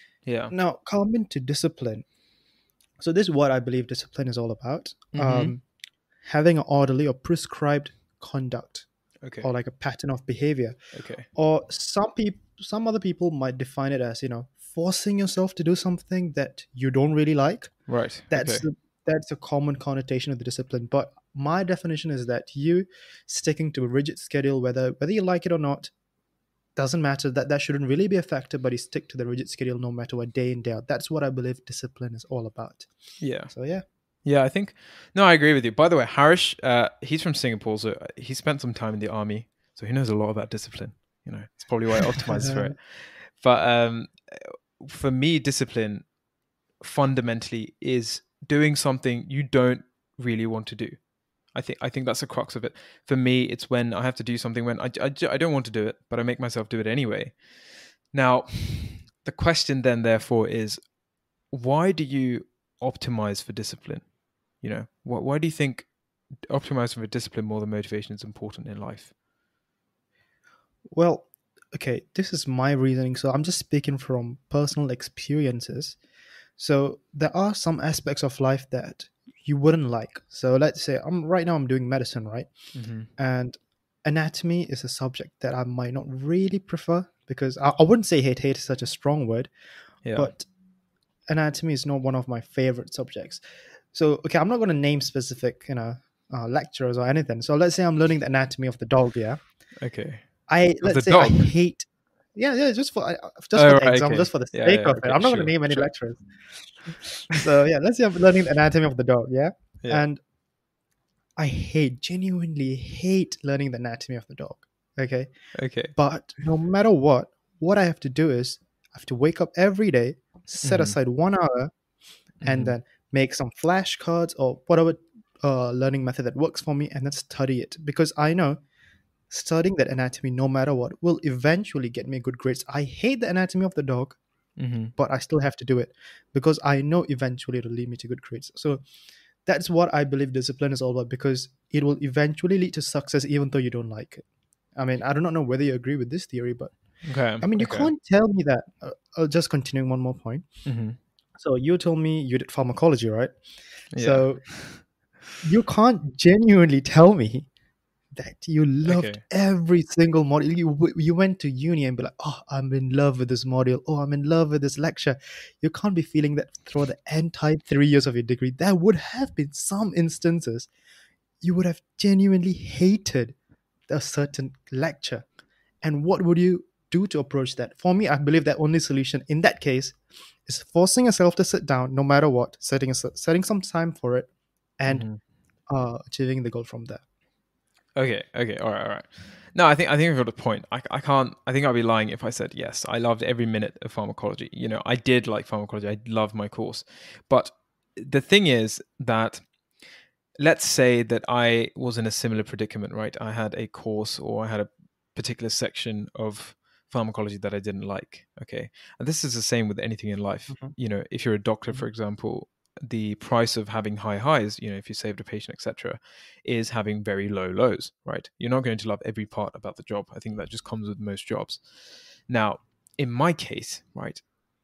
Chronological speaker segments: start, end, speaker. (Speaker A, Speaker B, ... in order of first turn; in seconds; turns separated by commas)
Speaker A: 0.2-0.5, Speaker B: 0.5-2.0, Speaker B: 3.0-5.6, Speaker A: 5.1-5.5, Speaker B: 6.2-8.9, Speaker B: 9.4-10.8, Speaker A: 10.9-11.3, Speaker B: 11.3-17.7, Speaker A: 17.9-18.6, Speaker B: 18.3-25.9, Speaker B: 26.8-32.9, Speaker A: 33.2-33.5, Speaker B: 33.5-33.8, Speaker A: 34.2-46.0, Speaker B: 42.4-42.7, Speaker A: 46.8-51.0, Speaker A: 51.5-57.4, Speaker A: 58.1-60.8, Speaker A: 61.5-64.1, Speaker A: 64.6-65.9, Speaker A: 66.5-69.1, Speaker B: 70.9-76.0, Speaker B: 76.6-82.5, Speaker A: 82.7-83.1, Speaker B: 83.2-89.5, Speaker A: 90.0-90.3, Speaker B: 90.1-90.5, Speaker B: 91.3-99.4, Speaker A: 99.8-101.5, Speaker B: 100.5-110.2, Speaker A: 103.5-105.9, Speaker B: 111.4-115.3, Speaker A: 115.5-115.9, Speaker B: 115.9-121.7, Speaker A: 120.6-121.0, Speaker A: 122.4-122.7, Speaker B: 122.4-128.6, Speaker B: 129.3-134.2, Speaker A: 134.6-134.9, Speaker B: 135.0-138.8, Speaker B: 139.4-144.2, Speaker B: 144.8-146.8, Speaker A: 147.0-147.9, Speaker B: 147.4-150.4, Speaker A: 150.6-151.0, Speaker B: 151.4-153.3, Speaker A: 153.9-154.8, Speaker B: 154.0-154.8, Speaker B: 155.4-157.5, Speaker B: 158.1-170.7, Speaker A: 158.8-159.2, Speaker B: 171.4-173.3, Speaker B: 173.9-175.2, Speaker B: 175.8-185.1, Speaker A: 184.9-185.2, Speaker B: 185.7-187.0, Speaker A: 187.9-199.4, Speaker A: 200.4-221.6, Speaker B: 210.5-210.7, Speaker A: 222.3-224.2